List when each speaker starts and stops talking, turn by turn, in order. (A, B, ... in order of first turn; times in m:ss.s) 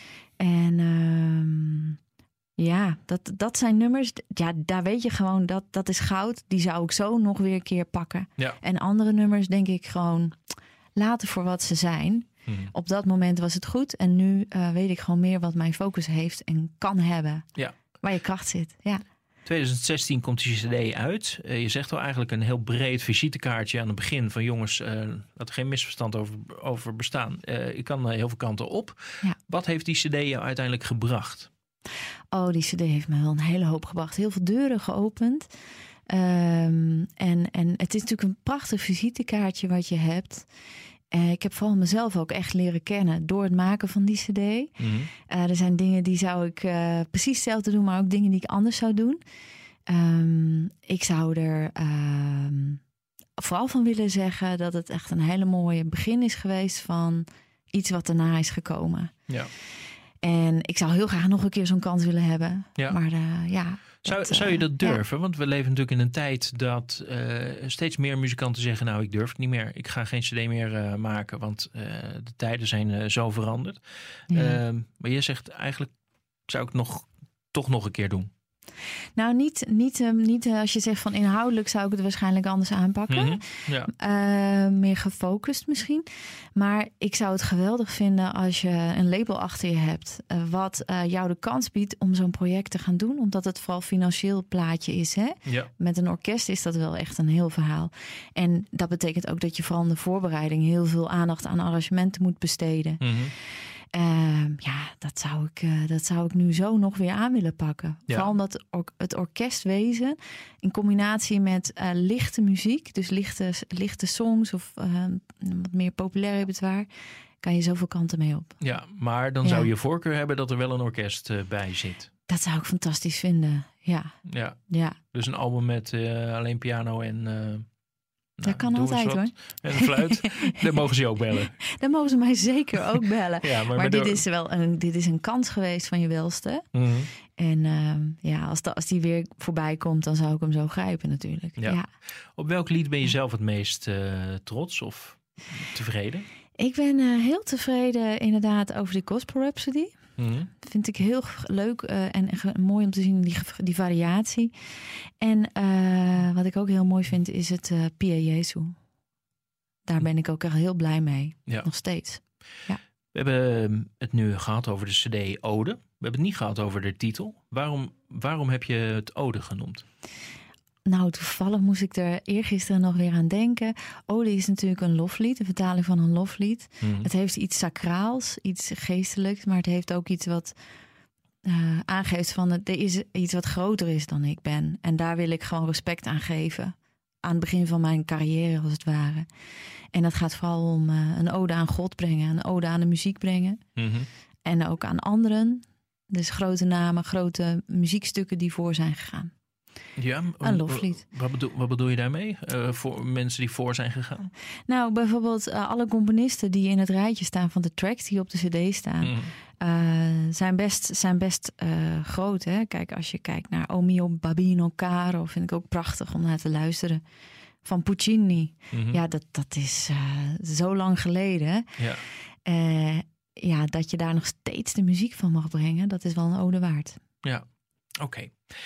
0:00.4-0:02.0 A
0:02.6-0:10.4 A
0:11.0-0:19.0 A
0:19.4-0:31.5 B
0:32.3-0:35.5 A
0:36.1-0:40.5 A
0:41.1-0:44.7 A
0:44.8-0:45.1 B
0:45.3-0:49.2 A
0:49.9-0:52.8 A
0:53.4-0:59.2 A
1:00.2-1:05.0 A
1:04.0-1:13.8 B
1:14.3-1:14.6 A
1:14.3-1:15.9 B
1:16.5-1:18.3 B
1:19.2-1:43.0 A
1:23.1-1:23.9 B
1:35.4-1:35.7 B
1:43.0-1:43.3 B
1:43.9-1:56.9 A
1:57.4-1:58.6 A
1:58.6-2:02.1 B
1:59.4-1:59.7 A
2:02.3-2:04.2 A
2:04.3-2:07.6 B
2:04.7-2:05.0 A
2:08.4-2:11.6 B
2:08.4-2:10.5 A
2:11.6-2:16.7 A
2:13.4-2:14.2 B
2:16.7-2:17.1 B
2:17.3-2:21.9 A
2:22.4-2:26.3 B
2:26.6-2:30.0 A
2:30.2-2:30.5 B
2:30.6-2:34.5 A
2:35.2-2:38.8 A
2:39.9-2:42.8 A
2:43.1-2:49.8 B
2:50.9-3:00.5 A
2:56.8-2:57.1 B
3:01.4-3:09.3 A
3:09.9-3:13.6 A
3:13.8-3:14.1 B
3:14.4-3:19.3 A
3:20.0-3:24.3 B
3:20.4-3:21.0 A
3:24.7-3:37.0 A
3:29.0-3:29.3 B
3:37.6-3:41.7 A
3:38.7-3:39.0 B
3:41.8-3:42.0 B
3:42.4-3:47.0 A
3:48.0-3:48.4 B